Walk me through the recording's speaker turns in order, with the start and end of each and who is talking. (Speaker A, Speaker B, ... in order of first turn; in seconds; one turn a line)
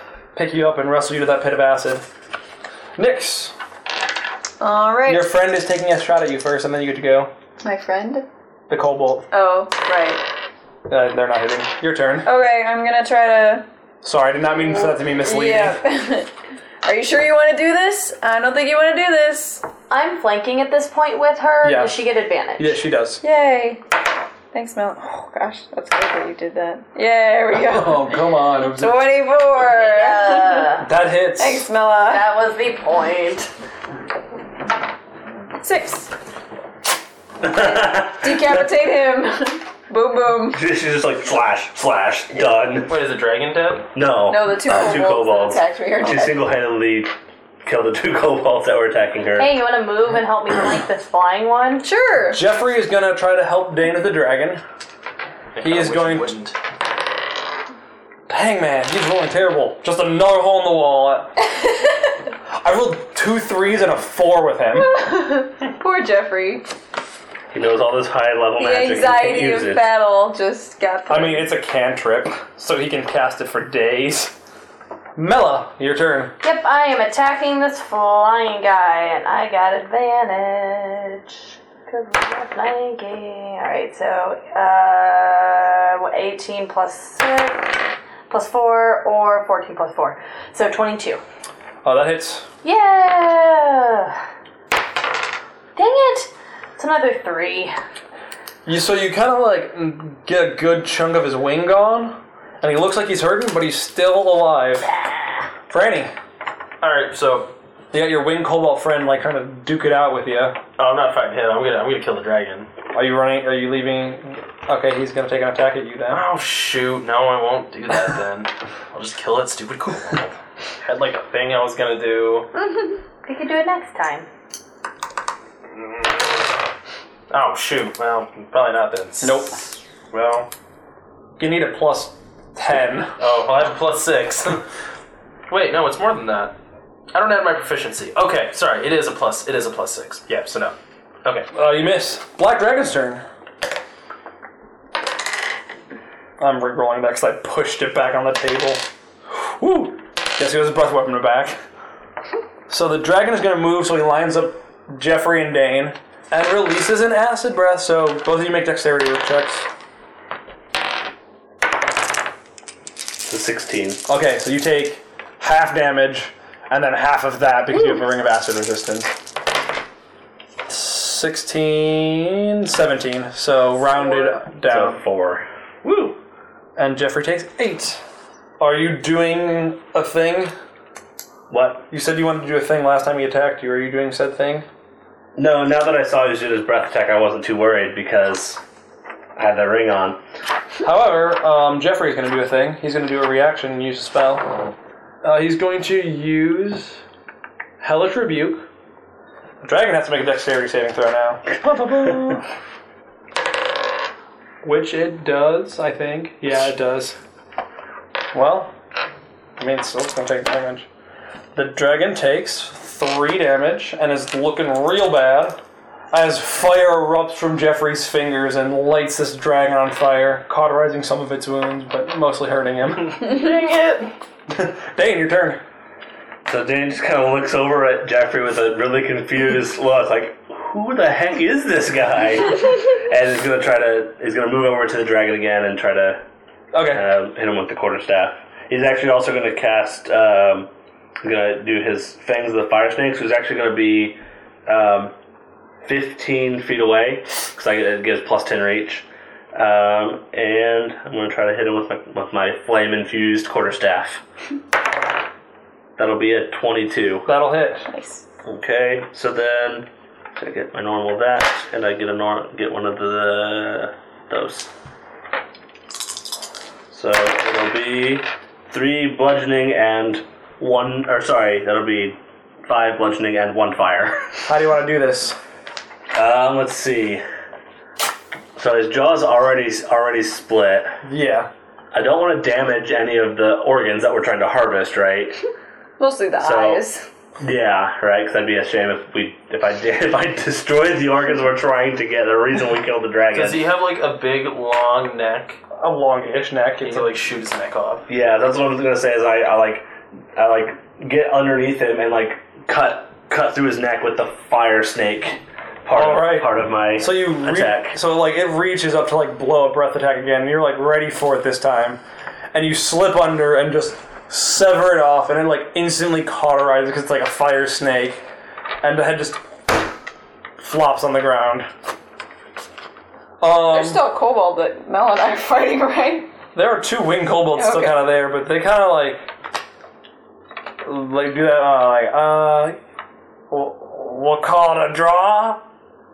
Speaker A: 0.3-2.0
Speaker A: 3.0-3.5
Speaker B: 4.6-5.3
Speaker A: 5.0-7.3
Speaker B: 7.6-8.2
Speaker A: 8.7-9.3
Speaker B: 9.3-10.2
Speaker A: 10.9-12.3
Speaker B: 12.2-13.6
Speaker A: 14.0-15.8
Speaker B: 14.8-16.3
Speaker B: 16.8-19.6
Speaker C: 19.9-22.8
Speaker A: 21.6-21.9
Speaker A: 22.6-23.2
Speaker B: 23.2-23.8
Speaker B: 24.5-30.8
Speaker A: 27.6-29.0
Speaker C: 29.6-30.8
Speaker A: 30.8-31.6
Speaker B: 31.4-32.2
Speaker C: 32.1-33.5
Speaker B: 35.6-36.1
Speaker D: 37.4-38.7
Speaker B: 37.4-40.6
Speaker D: 40.5-42.9
Speaker E: 42.9-43.9
Speaker D: 43.9-47.1
Speaker B: 44.3-46.4
Speaker D: 47.6-49.5
Speaker C: 49.4-51.9
Speaker B: 51.8-52.4
Speaker A: 52.3-54.6
Speaker E: 55.5-56.5
Speaker A: 55.6-56.3
Speaker A: 58.3-61.3
Speaker B: 61.6-62.1
Speaker A: 62.6-64.9
Speaker B: 64.7-66.6
Speaker D: 67.5-69.9
Speaker B: 68.6-71.5
Speaker A: 71.1-74.3
Speaker A: 75.2-76.3
Speaker C: 76.4-91.2
Speaker A: 91.8-92.5
Speaker C: 92.6-94.2
Speaker C: 95.8-97.8
Speaker A: 98.7-104.9
Speaker C: 105.0-105.3
Speaker A: 105.7-106.1
Speaker E: 106.8-107.5
Speaker A: 107.9-110.6
Speaker E: 110.8-112.7
Speaker A: 112.9-116.2
Speaker E: 116.1-122.5
Speaker C: 123.2-124.3
Speaker E: 125.8-126.1
Speaker E: 127.3-129.4
Speaker A: 129.2-129.6
Speaker E: 130.1-130.5
Speaker A: 131.4-133.1
Speaker E: 133.2-134.6
Speaker E: 135.5-136.6
Speaker E: 137.1-141.5
Speaker A: 141.5-143.2
Speaker A: 146.4-151.6
Speaker A: 152.7-159.7
Speaker D: 163.2-164.0
Speaker A: 164.1-169.1
Speaker A: 170.7-175.0
Speaker D: 174.2-176.2
Speaker A: 176.8-178.0
Speaker A: 178.6-180.5
Speaker D: 181.5-181.9
Speaker A: 181.9-184.7
Speaker D: 185.4-188.6
Speaker D: 189.4-190.2
Speaker A: 190.8-194.5
Speaker A: 195.2-197.0
Speaker A: 197.8-198.7
Speaker A: 199.6-202.5
Speaker A: 204.6-207.2
Speaker A: 208.3-208.7
Speaker A: 209.6-210.9
Speaker A: 211.5-215.6
Speaker A: 216.1-223.3
Speaker E: 223.1-224.1
Speaker A: 224.5-225.6
Speaker D: 226.5-236.2
Speaker A: 236.7-237.0
Speaker D: 236.9-240.7
Speaker D: 241.2-245.1
Speaker D: 245.8-254.2
Speaker D: 256.0-257.3
Speaker A: 257.2-257.9
Speaker B: 257.9-258.2
Speaker D: 258.4-264.7
Speaker D: 266.9-274.2
Speaker A: 274.5-275.4
Speaker D: 276.1-277.2
Speaker D: 278.6-280.9
Speaker A: 281.1-281.5
Speaker D: 281.9-285.4
Speaker B: 286.0-287.1
Speaker D: 286.4-286.8
Speaker D: 287.4-293.6
Speaker E: 293.3-295.6
Speaker A: 295.8-297.1
Speaker E: 296.8-298.1
Speaker D: 298.1-307.9
Speaker A: 305.9-312.0
Speaker A: 312.5-318.2
Speaker A: 318.8-319.7
Speaker A: 320.6-321.7
Speaker A: 323.4-324.0
Speaker B: 323.7-326.3
Speaker A: 326.6-329.3
Speaker B: 327.6-328.0
Speaker A: 330.8-332.8
Speaker A: 333.5-335.6